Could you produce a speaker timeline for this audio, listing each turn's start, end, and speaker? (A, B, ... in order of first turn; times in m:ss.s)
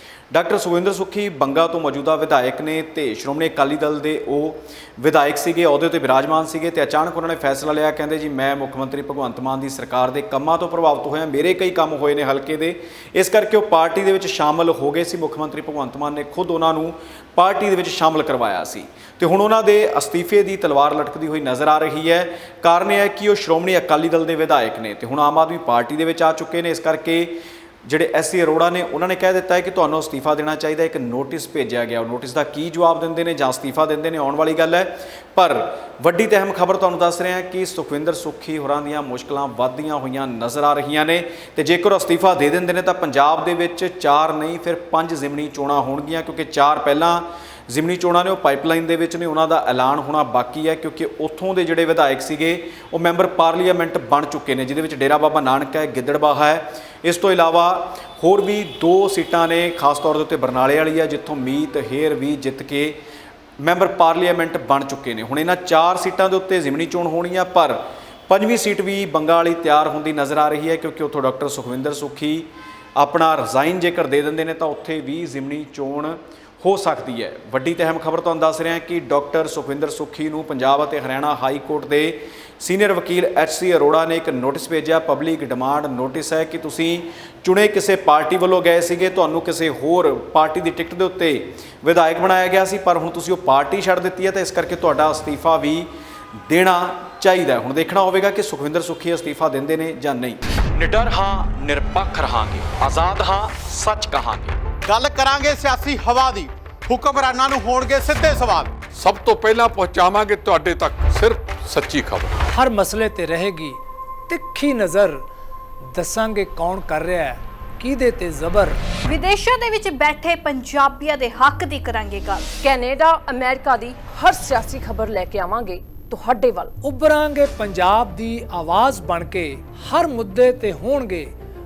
0:00.3-1:03.0 A
1:03.6-1:35.9 A
1:36.4-1:44.6 A
1:44.8-1:48.8 B
1:48.9-1:52.3 C
1:52.5-1:55.2 D
1:55.9-1:58.8 D
1:59.0-2:02.6 E
2:02.6-2:06.6 F
2:06.8-2:11.3 D